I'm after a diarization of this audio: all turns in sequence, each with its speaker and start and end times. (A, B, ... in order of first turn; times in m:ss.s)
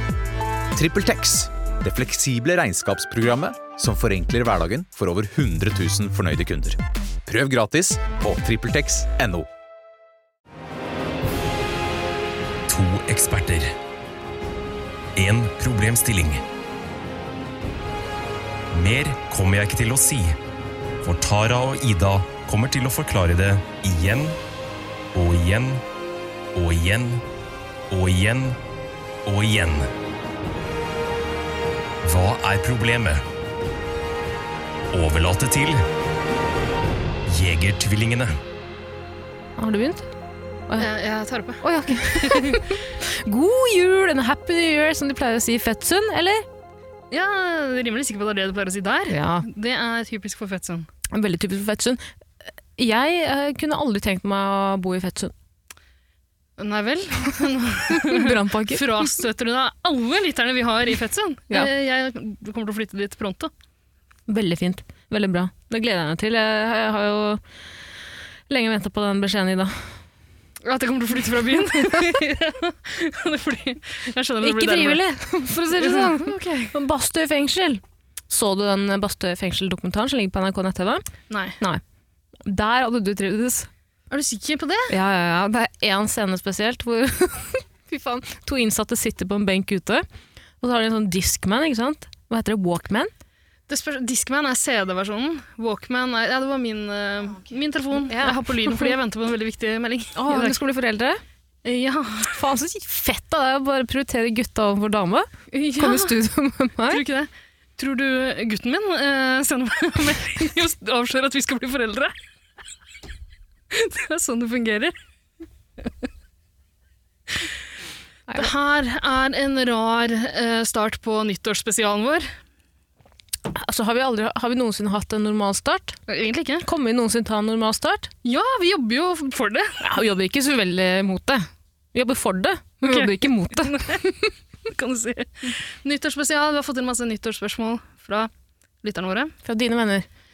0:00.7-0:09.5 A
0:12.7-0:13.7 B
0:15.2-0:16.4 B
0:18.7-0:20.4 B
0:21.0-0:24.4 B
0:25.1-0:25.8 B
0:26.5-0:27.2 B
0:27.9-0:28.6 B
0:29.2-0:29.9 B
0:32.0-0:33.2 B
0:34.9-0:35.8 B
0:37.3-0:38.3 B
0:39.6-0:40.1 C
0:40.8-0:42.8 D
0:41.6-0:46.4 C
0:47.1-0:50.9 D
0:49.1-0:49.5 C
0:51.1-0:55.3 C
0:56.6-1:03.5 D
0:57.9-0:59.1 C
1:04.3-1:07.4 C
1:08.5-1:09.8 C
1:10.6-1:15.0 D
1:14.4-1:21.0 C
1:15.6-1:16.7 D
1:21.3-1:21.6 D
1:22.4-1:23.7 C
1:24.1-1:24.9 D
1:24.9-1:30.0 C
1:30.6-1:33.1 C
1:33.7-1:40.6 D
1:38.0-1:38.9 C
1:40.1-1:41.2 C
1:41.6-1:42.4 D
1:42.3-1:47.0 C
1:45.5-1:46.2 D
1:46.9-1:52.2 D
1:53.7-1:54.9 D
1:55.8-1:56.0 D
1:58.3-2:02.3 D
2:03.5-2:06.0 C
2:06.1-2:06.7 D
2:06.6-2:08.1 C
2:08.2-2:09.8 D
2:09.8-2:14.3 C
2:12.8-2:14.0 D
2:14.7-2:18.3 D
2:18.8-2:19.3 D
2:19.4-2:20.1 C